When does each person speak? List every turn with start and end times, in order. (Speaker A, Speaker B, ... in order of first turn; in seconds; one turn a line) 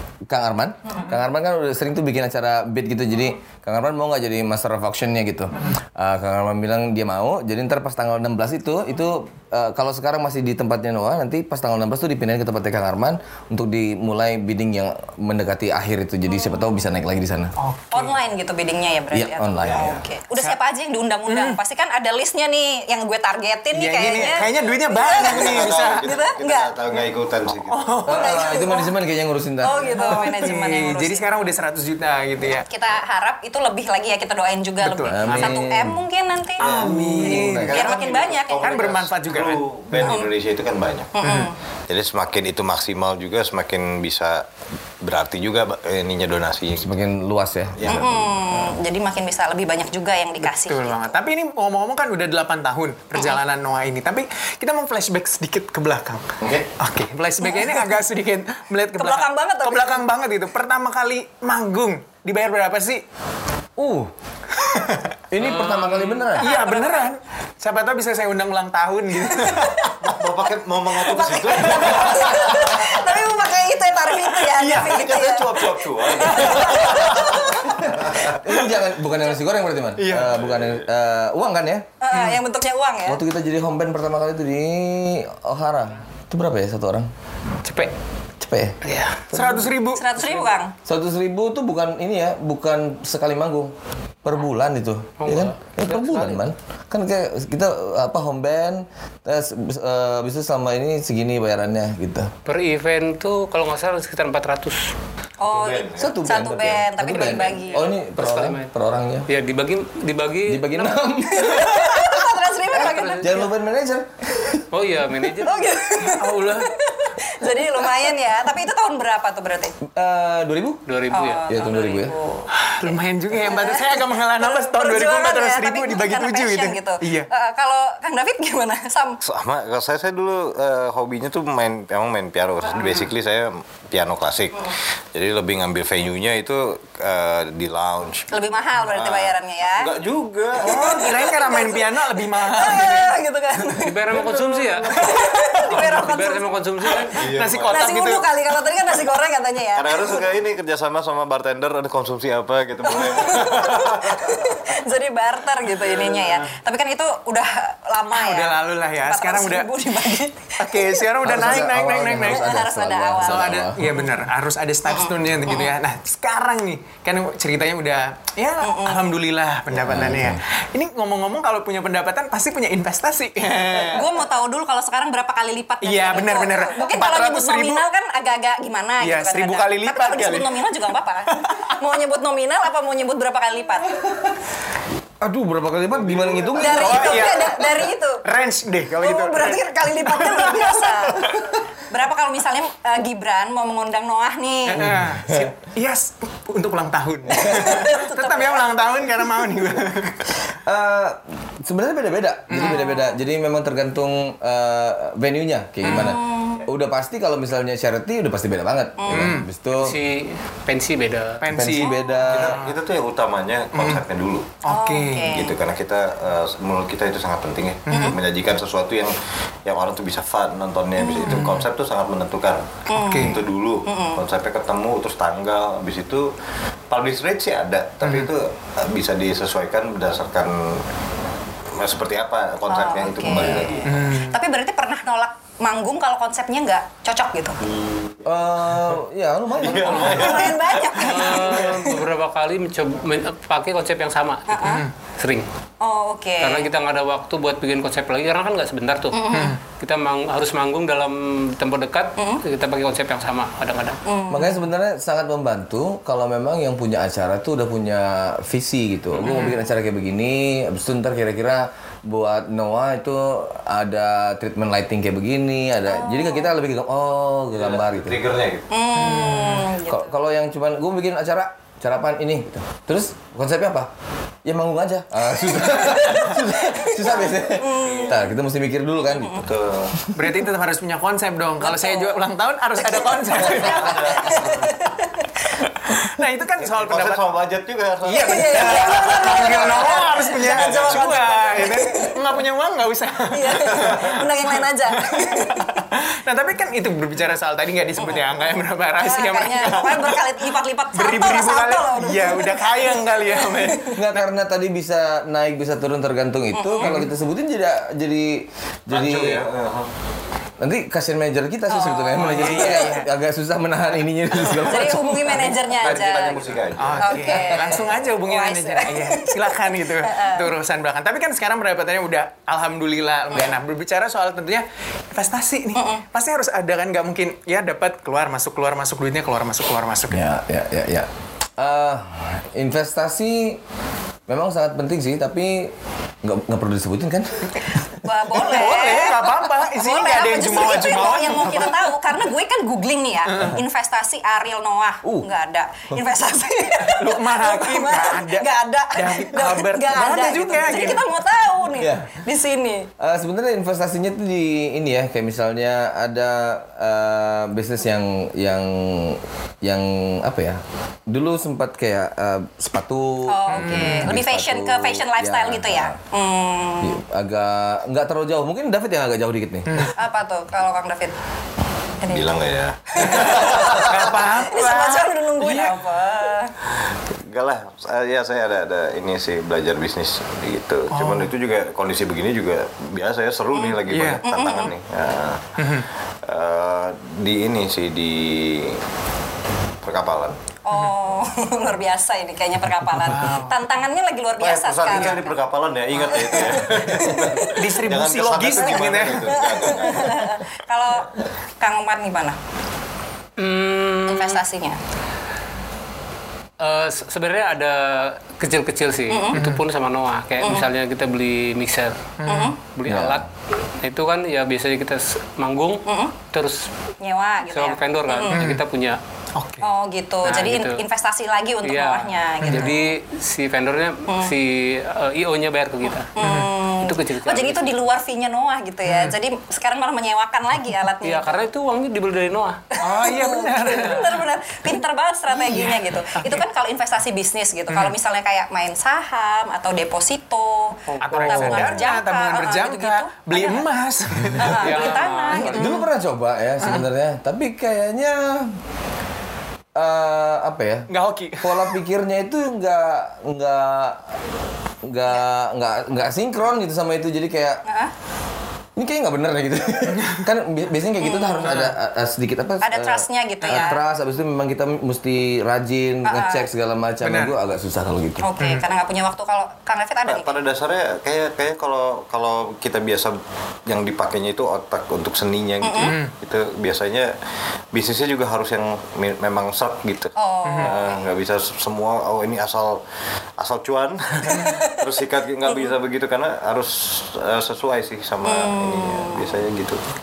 Speaker A: 0.3-17.6
Speaker B: 17.6-18.2
Speaker C: 17.9-26.8
Speaker A: 19.1-20.0
Speaker B: 21.3-21.6
Speaker B: 23.7-26.2
Speaker D: 25.3-28.0
Speaker B: 27.7-28.4
Speaker A: 28.1-30.0
Speaker C: 28.1-28.9
Speaker C: 29.6-31.3
Speaker B: 29.9-32.7
Speaker C: 32.7-38.8
Speaker B: 34.8-35.6
Speaker A: 35.1-36.0
Speaker A: 36.6-38.0
Speaker B: 36.6-40.2
Speaker D: 37.4-41.2
Speaker C: 40.0-40.3
Speaker C: 41.2-41.5
Speaker B: 41.2-41.5
Speaker D: 41.9-44.5
Speaker D: 45.0-47.0
Speaker A: 46.8-48.6
Speaker D: 47.8-48.1
Speaker C: 47.8-51.2
Speaker B: 50.4-63.0
Speaker A: 56.4-56.7
Speaker C: 57.4-57.9
Speaker C: 59.0-60.0
Speaker A: 63.8-64.1
Speaker B: 64.5-65.1
Speaker A: 65.3-66.5
Speaker E: 65.4-66.5
Speaker C: 66.4-67.1
Speaker B: 66.4-69.8
Speaker C: 69.6-69.9
Speaker D: 70.0-72.9
Speaker C: 71.0-77.7
Speaker D: 74.4-78.3
Speaker B: 74.7-74.9
Speaker A: 77.5-81.9
Speaker B: 80.0-80.3
Speaker D: 80.3-80.8
Speaker C: 82.0-83.2
Speaker A: 83.1-87.1
Speaker E: 87.6-87.9
Speaker A: 88.4-88.8
Speaker E: 88.8-89.2
Speaker B: 89.3-90.1
Speaker A: 89.3-89.6
Speaker C: 89.9-90.8
Speaker E: 90.2-90.5
Speaker A: 90.8-93.7
Speaker A: 94.2-102.3
Speaker E: 95.2-96.4
Speaker E: 102.5-104.9
Speaker C: 105.4-107.9
Speaker D: 105.4-106.2
Speaker A: 106.0-109.3
Speaker E: 108.2-108.7
Speaker E: 109.3-111.0
Speaker A: 110.5-112.0
Speaker C: 111.3-113.5
Speaker E: 112.7-113.5
Speaker A: 112.8-114.6
Speaker E: 114.7-115.7
Speaker C: 115.4-119.8
Speaker B: 116.1-116.7
Speaker A: 119.9-120.8
Speaker E: 120.9-121.5
Speaker C: 121.1-129.2
Speaker A: 121.5-122.1
Speaker B: 122.5-127.3
Speaker D: 129.2-138.3
Speaker C: 138.3-139.9
Speaker D: 138.8-141.2
Speaker B: 140.6-143.2
Speaker C: 140.7-144.2
Speaker E: 143.8-147.3
Speaker D: 144.1-144.6
Speaker C: 144.8-147.0
Speaker D: 147.2-147.9
Speaker B: 147.2-148.2
Speaker C: 147.7-150.3
Speaker D: 149.8-154.5
Speaker C: 152.8-161.1
Speaker B: 158.1-159.7
Speaker B: 160.6-162.6
Speaker A: 161.2-163.9
Speaker C: 162.2-163.7
Speaker B: 163.2-174.1
Speaker C: 164.9-165.7
Speaker C: 168.6-169.1
Speaker A: 169.8-170.4
Speaker C: 173.8-184.1
Speaker B: 175.8-177.9
Speaker B: 179.0-180.7
Speaker B: 181.4-181.7
Speaker A: 185.2-187.4
Speaker B: 186.0-190.9
Speaker C: 186.6-188.2
Speaker C: 189.0-194.9
Speaker B: 194.7-200.3
Speaker A: 194.8-195.4
Speaker C: 197.4-198.7
Speaker A: 200.5-210.0
Speaker B: 202.5-202.8
Speaker C: 202.5-203.2
Speaker B: 205.8-206.2
Speaker C: 205.8-206.7
Speaker C: 209.0-209.3
Speaker B: 209.1-209.5
Speaker E: 209.8-211.5
Speaker B: 211.4-212.8
Speaker A: 211.5-212.6
Speaker C: 211.8-212.4
Speaker E: 212.3-212.6
Speaker D: 212.4-214.6
Speaker B: 213.7-214.0
Speaker B: 214.6-215.4
Speaker C: 214.7-215.5
Speaker D: 215.3-226.3
Speaker B: 217.9-218.2
Speaker C: 217.9-218.2
Speaker C: 221.0-221.4
Speaker B: 221.2-221.7
Speaker C: 222.9-224.2
Speaker B: 222.9-223.4
Speaker D: 226.9-230.9
Speaker B: 228.0-228.3
Speaker D: 231.7-233.9
Speaker C: 232.7-237.6
Speaker A: 233.3-233.7
Speaker B: 233.8-234.4
Speaker D: 237.8-238.2
Speaker A: 238.2-240.5
Speaker D: 239.6-241.6
Speaker E: 239.8-245.5
Speaker C: 240.0-242.0
Speaker C: 244.5-244.8
Speaker C: 245.8-246.7
Speaker E: 246.4-254.0
Speaker C: 249.1-249.6
Speaker B: 249.3-249.6
Speaker C: 252.2-252.4
Speaker C: 254.1-254.6
Speaker A: 254.3-268.2
Speaker E: 259.1-259.5
Speaker C: 259.2-259.6
Speaker C: 265.9-266.5
Speaker D: 267.5-268.7
Speaker C: 268.7-270.1
Speaker B: 269.0-269.6
Speaker A: 269.1-273.9
Speaker A: 274.4-279.5
Speaker C: 275.6-278.2
Speaker D: 277.9-278.1
Speaker C: 279.1-279.4
Speaker D: 279.4-279.9
Speaker B: 280.1-284.0
Speaker C: 281.6-282.2
Speaker C: 282.8-285.3
Speaker A: 283.5-283.7
Speaker D: 283.7-284.8
Speaker B: 286.1-287.2
Speaker D: 286.6-289.1
Speaker B: 288.0-303.9
Speaker C: 288.2-292.2
Speaker C: 293.3-295.8
Speaker C: 299.0-304.0
Speaker A: 303.9-309.4
Speaker C: 306.5-306.9
Speaker B: 306.8-307.1
Speaker D: 308.9-309.9
Speaker A: 310.6-316.0
Speaker C: 311.7-313.0
Speaker B: 312.2-313.1
Speaker C: 314.6-320.5
Speaker D: 315.8-317.6
Speaker B: 316.8-330.3
Speaker C: 325.7-326.0
Speaker A: 330.1-333.6
Speaker A: 334.3-337.8
Speaker C: 337.9-352.9
Speaker B: 338.3-342.0
Speaker B: 343.3-343.6
Speaker A: 345.0-345.3
Speaker B: 346.9-351.1
Speaker A: 351.8-352.2
Speaker A: 353.0-366.0
Speaker C: 363.3-367.0
Speaker B: 363.5-364.1
Speaker A: 366.8-369.9
Speaker C: 369.9-371.2
Speaker C: 372.0-372.3
Speaker D: 372.1-374.0
Speaker C: 372.9-376.5
Speaker B: 373.7-375.8
Speaker D: 377.1-385.6
Speaker B: 380.9-381.3
Speaker C: 383.6-384.7
Speaker B: 383.9-384.2
Speaker B: 385.6-385.9
Speaker D: 386.2-388.8
Speaker D: 389.8-390.4
Speaker C: 390.6-395.4
Speaker B: 393.1-393.6
Speaker D: 394.4-400.4
Speaker C: 396.0-397.5
Speaker A: 396.9-397.5
Speaker B: 397.4-399.3
Speaker C: 398.6-402.4
Speaker E: 403.4-404.4
Speaker C: 404.1-404.8
Speaker E: 406.6-413.3
Speaker C: 409.1-409.4
Speaker B: 409.3-409.6
Speaker C: 410.4-410.7
Speaker B: 412.2-412.5
Speaker C: 412.3-412.6
Speaker A: 412.9-413.2
Speaker E: 413.8-416.7
Speaker C: 415.9-416.2
Speaker C: 417.0-418.5
Speaker E: 417.4-419.0
Speaker B: 418.3-418.6
Speaker B: 419.4-419.7
Speaker C: 419.6-422.9
Speaker E: 420.2-420.9
Speaker E: 421.6-427.9
Speaker B: 422.4-422.7
Speaker C: 424.1-424.3
Speaker C: 426.2-431.5
Speaker B: 426.2-426.6
Speaker B: 428.9-429.2
Speaker E: 431.0-432.6
Speaker C: 432.8-443.7
Speaker B: 432.8-434.3
Speaker B: 435.3-436.4
Speaker B: 437.7-438.0
Speaker E: 440.9-441.9
Speaker B: 441.0-445.9
Speaker C: 444.4-445.6
Speaker E: 444.6-445.7
Speaker A: 445.4-448.6
Speaker A: 449.8-454.1
Speaker B: 450.9-451.8
Speaker A: 454.8-457.6
Speaker C: 457.7-457.9
Speaker A: 458.8-468.3
Speaker B: 459.9-460.2
Speaker C: 461.0-461.6
Speaker B: 461.5-461.8
Speaker C: 462.6-463.8
Speaker B: 463.4-463.7
Speaker C: 466.1-466.5
Speaker B: 467.0-467.4
Speaker C: 468.2-470.4
Speaker B: 468.4-468.7
Speaker D: 470.1-477.1
Speaker C: 475.6-475.9
Speaker B: 475.8-476.1
Speaker D: 477.7-482.8
Speaker C: 480.2-481.1
Speaker B: 480.4-480.8
Speaker D: 483.4-489.8
Speaker C: 484.3-484.8
Speaker C: 488.2-489.3